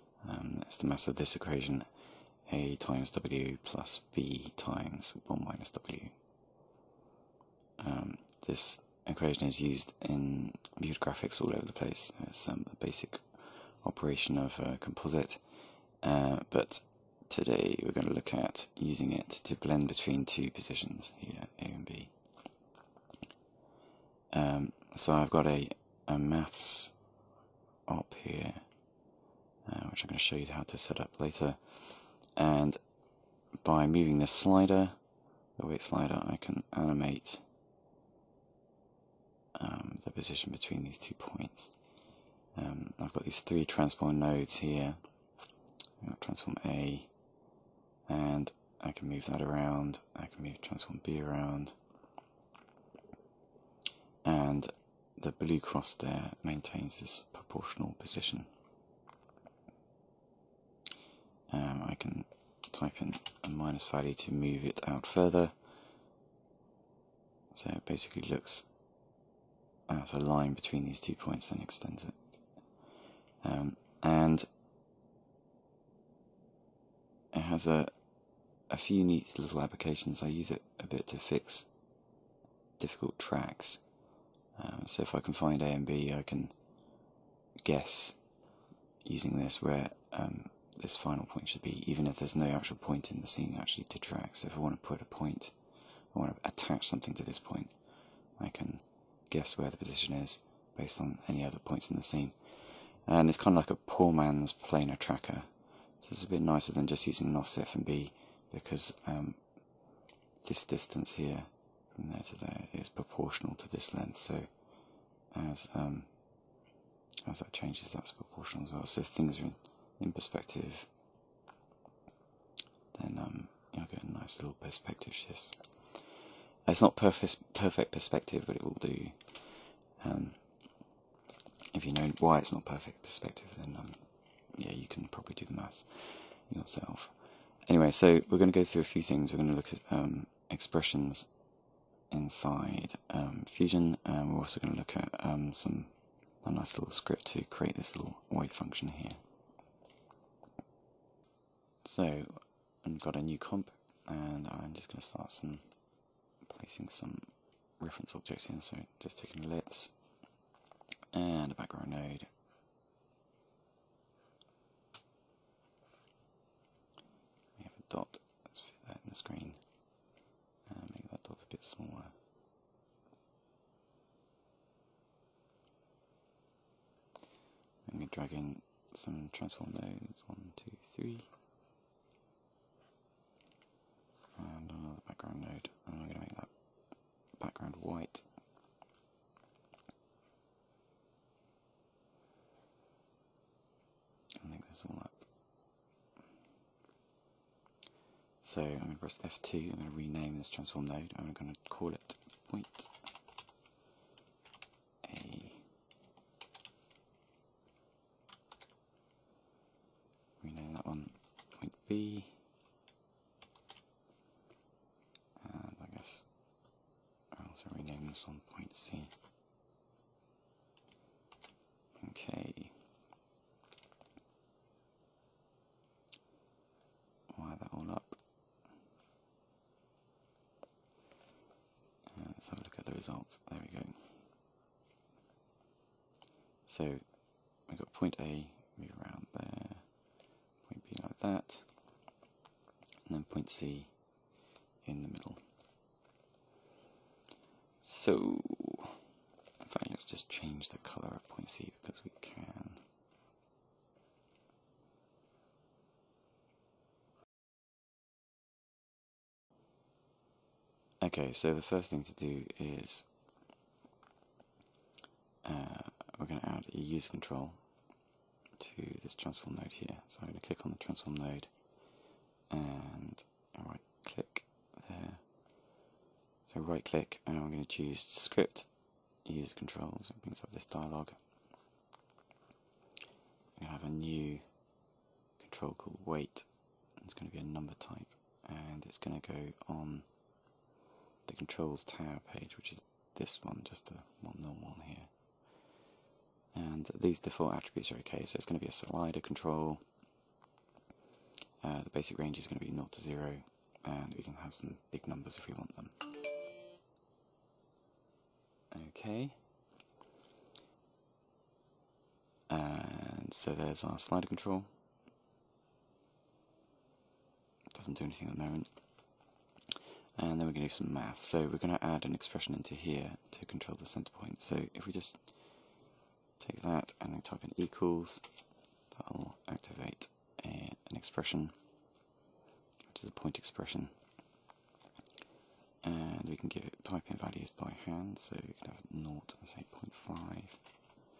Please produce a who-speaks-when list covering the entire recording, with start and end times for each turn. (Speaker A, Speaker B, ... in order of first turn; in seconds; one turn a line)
Speaker A: 0.2-6.2
Speaker A: 7.8-22.3
Speaker A: 24.3-27.1
Speaker A: 27.9-29.1
Speaker A: 29.6-37.5
Speaker A: 39.5-42.0
Speaker A: 42.5-47.4
Speaker A: 48.1-51.8
Speaker A: 54.2-58.5
Speaker A: 61.5-65.6
Speaker A: 67.5-68.8
Speaker A: 69.9-72.8
Speaker A: 73.4-74.5
Speaker A: 77.3-81.9
Speaker A: 82.8-87.0
Speaker A: 87.6-88.4
Speaker A: 89.0-116.6
Speaker A: 117.2-120.9
Speaker A: 122.9-126.1
Speaker A: 126.6-130.9
Speaker A: 131.7-149.2
Speaker A: 151.8-160.3
Speaker A: 161.1-162.3
Speaker A: 167.6-170.1
Speaker A: 170.7-172.2
Speaker A: 177.8-181.3
Speaker A: 184.3-188.3
Speaker A: 194.4-195.5
Speaker A: 198.4-203.1
Speaker A: 205.0-205.7
Speaker A: 210.4-212.4
Speaker A: 215.4-219.2
Speaker A: 221.9-222.8
Speaker A: 227.3-228.2
Speaker A: 232.1-234.3
Speaker A: 236.7-242.1
Speaker A: 243.0-245.5
Speaker A: 247.8-249.0
Speaker A: 249.6-252.9
Speaker A: 261.0-263.1
Speaker A: 265.4-268.0
Speaker A: 268.6-275.5
Speaker A: 276.5-281.2
Speaker A: 283.6-284.8
Speaker A: 285.4-290.4
Speaker A: 291.2-295.7
Speaker A: 296.5-299.9
Speaker A: 301.6-306.1
Speaker A: 308.7-309.4
Speaker A: 312.5-314.8
Speaker A: 317.7-319.3
Speaker A: 320.1-331.7
Speaker A: 332.9-334.0
Speaker A: 335.8-340.8